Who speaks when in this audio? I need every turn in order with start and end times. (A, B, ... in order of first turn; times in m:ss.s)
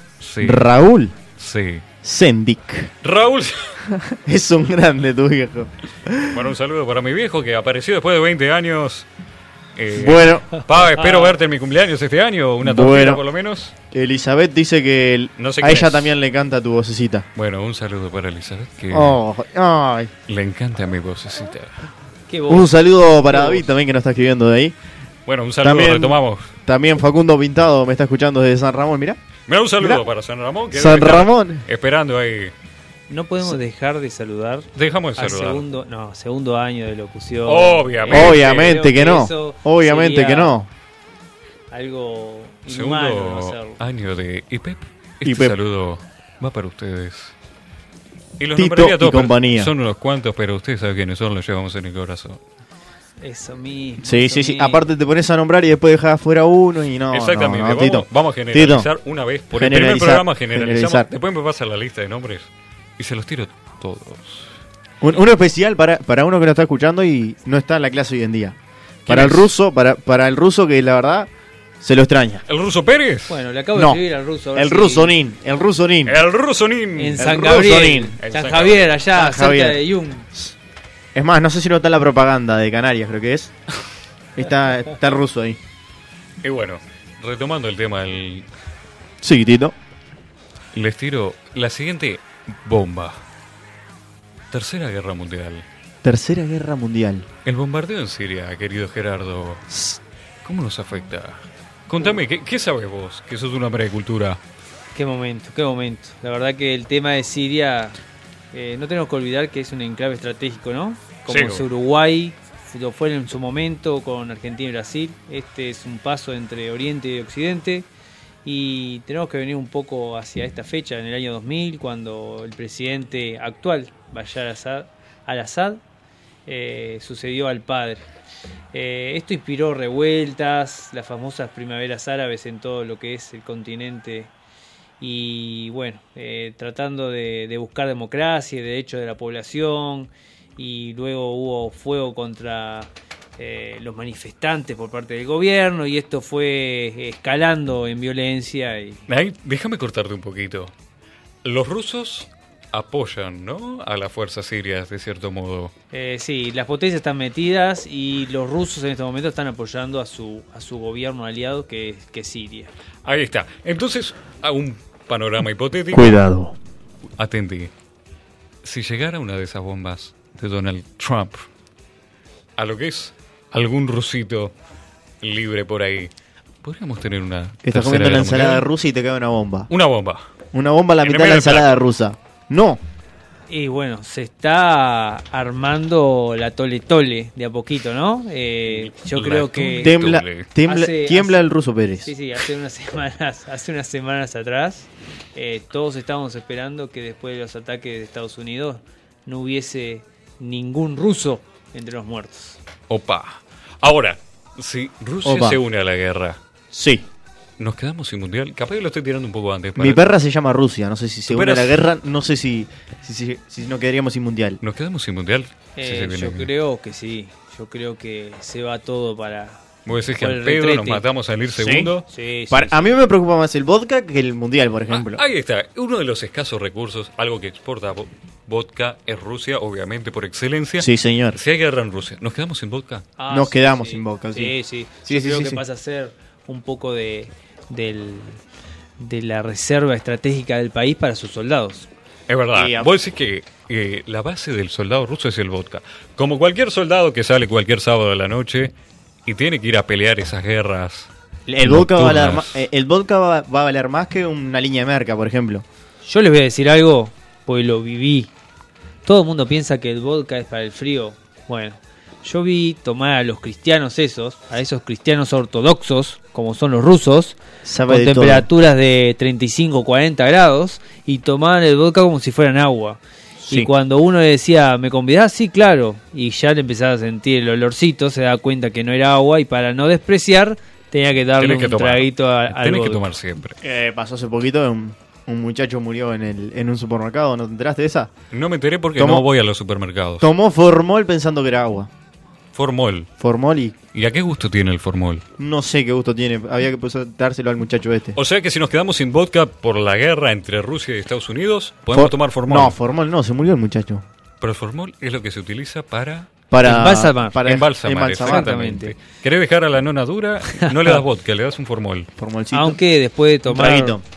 0:00.2-0:00.7 A
0:00.4-0:01.2 B
0:01.4-0:01.8 A
0:02.0-0:02.9 B
0:03.0-0:03.8 A
0:03.9-0:06.4 B
0:06.2-0:09.1 A
0:09.8-0:13.7 A
0:09.9-0:10.5 B
0:11.0-0:11.3 C
0:12.6-0:13.2 B
0:13.9-0:17.2 B
0:15.4-0:16.1 A
0:17.4-0:19.2 A
0:18.9-0:20.1 B
0:20.3-0:21.8 A
0:22.3-0:22.7 C
0:22.5-0:24.7 B
0:23.2-0:23.7 C
0:25.2-0:26.5 A
0:25.6-0:29.2 B
0:29.5-0:32.5 A
0:30.7-0:31.6 B
0:33.1-0:40.5 C
0:34.7-0:35.6 A
0:37.4-0:38.8 A
0:38.1-0:40.7 B
0:41.7-0:43.8 C
0:42.7-0:47.3 A
0:45.2-0:45.5 B
0:48.4-0:52.4 A
0:48.5-0:49.7 B
0:53.2-0:54.8 C
0:54.0-0:58.9 B
0:57.1-1:02.5 A
0:59.5-1:01.1 B
1:03.0-1:04.5 A
1:05.0-1:11.3 B
1:09.0-1:09.4 A
1:11.8-1:12.4 B
1:12.5-1:13.4 A
1:13.3-1:15.1 C
1:13.7-1:14.0 B
1:14.5-1:16.2 B
1:16.0-1:17.4 A
1:17.0-1:20.3 C
1:17.2-1:18.2 B
1:18.2-1:18.9 A
1:19.1-1:19.8 B
1:21.1-1:23.5 B
1:24.3-1:25.6 B
1:26.4-1:28.5 A
1:29.2-1:29.8 B
1:30.7-1:33.2 A
1:34.5-1:35.6 A
1:36.0-1:37.3 B
1:37.4-1:39.6 A
1:39.7-1:40.0 B
1:40.4-1:44.4 A
1:44.9-1:47.9 C
1:48.5-1:57.9 C
1:51.3-1:51.6 A
1:58.4-2:05.8 C
2:06.5-2:08.0 C
2:08.7-2:14.3 C
2:15.0-2:29.0 C
2:29.1-2:30.7 A
2:31.4-2:35.7 A
2:35.9-2:42.7 C
2:43.0-2:46.2 A
2:45.9-2:46.5 B
2:47.2-2:47.7 A
2:48.6-2:51.4 A
2:52.6-2:54.5 A
2:55.2-2:56.1 A
2:56.6-2:58.7 A
2:57.6-2:59.7 B
2:59.7-3:00.3 A
3:00.5-3:02.8 B
3:01.0-3:01.8 A
3:03.5-3:09.9 C
3:08.7-3:10.5 A
3:09.8-3:12.1 B
3:10.6-3:11.5 C
3:12.0-3:22.6 C
3:22.9-3:26.4 A
3:25.2-3:25.6 B
3:26.7-3:27.0 B
3:27.6-3:30.1 A
3:29.8-3:34.6 B
3:31.3-3:31.8 A
3:34.6-3:36.5 A
3:35.8-3:39.6 C
3:39.8-3:42.0 A
3:40.2-3:41.0 C
3:41.5-3:41.9 B
3:42.1-3:42.9 C
3:42.5-3:45.2 B
3:44.9-3:53.0 A
3:50.8-3:51.4 B
3:53.2-3:58.4 C
3:53.3-3:55.6 B
3:59.0-4:01.9 C
4:02.3-4:08.7 A
4:02.5-4:02.9 B
4:09.2-4:11.1 A
4:11.5-4:15.6 B
4:11.6-4:12.6 A
4:16.0-4:18.3 C
4:19.0-4:43.0 C
4:27.6-4:28.5 B
4:33.4-4:33.7 B
4:41.4-4:43.6 A
4:43.6-4:48.1 B
4:48.3-4:50.2 A
4:49.0-4:49.2 B
4:50.2-4:51.9 B
4:52.5-4:53.1 A
4:53.2-4:53.8 B
4:53.9-4:55.2 A
4:55.4-4:58.2 B
4:58.2-5:02.8 A
5:01.9-5:04.0 B
5:04.4-5:06.3 A
5:06.5-5:08.5 B
5:06.6-5:07.4 C
5:07.4-5:12.1 A
5:08.2-5:08.9 C
5:10.6-5:11.0 C
5:12.2-5:12.8 B
5:12.5-5:14.0 C
5:13.4-5:14.0 B